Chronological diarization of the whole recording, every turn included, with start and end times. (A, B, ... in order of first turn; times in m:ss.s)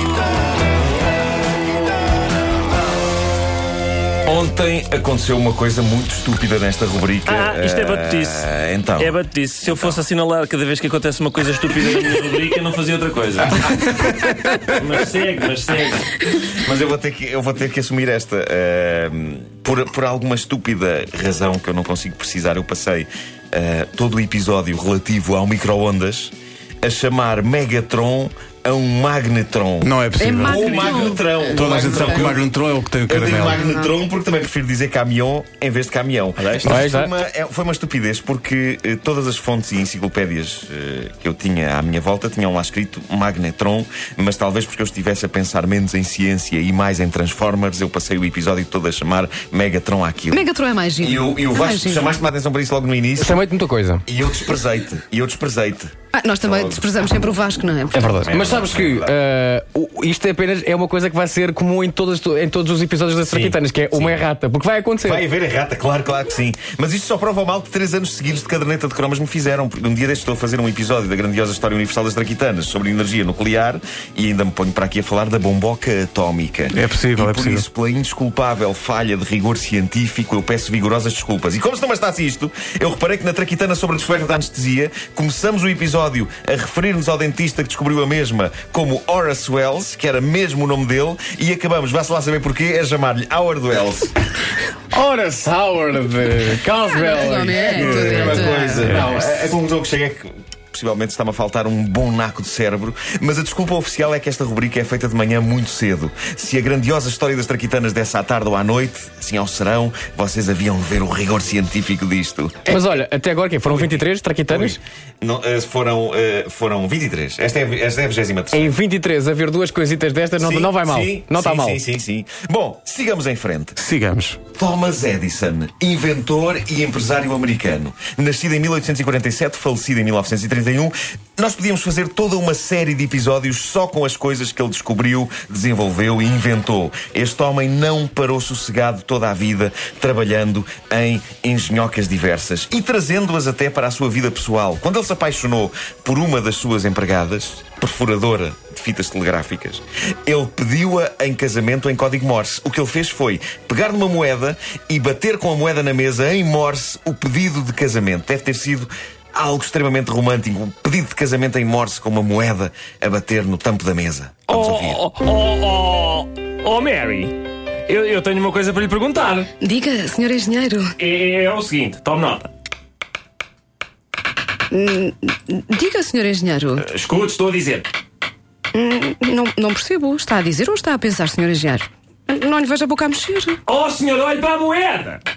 0:04.2-0:09.1 A
0:07.3-0:16.1 B
0:16.5-0:29.9 A
0:29.8-0:30.7 C
0:30.2-0:32.3 D
0:30.4-0:32.5 A
0:30.5-0:31.1 B
0:31.5-0:33.6 C
0:33.1-0:50.4 A
0:33.5-0:33.9 D
0:36.4-0:36.8 B
0:36.6-0:37.1 E
0:50.3-0:52.2 D
0:51.0-0:53.4 A
0:53.2-0:54.0 E
0:54.0-0:56.9 A
0:56.1-0:58.1 D
0:57.9-1:05.2 E
0:58.2-0:59.2 A
1:03.2-1:04.2 A
1:05.0-1:34.2 A
1:16.7-1:17.6 C
1:34.9-1:39.5 E
1:36.9-1:39.1 D
1:37.8-1:52.8 A
1:52.7-1:54.8 E
1:53.7-1:58.7 A
1:58.5-2:01.8 E
2:00.4-2:03.8 A
2:03.8-2:04.4 C
2:04.5-2:45.0 A
2:44.5-2:49.5 B
2:49.6-2:50.9 D
2:51.0-2:52.5 B
2:54.7-2:56.8 D
2:56.8-2:57.9 B
2:58.7-3:03.6 D
3:03.6-3:05.2 B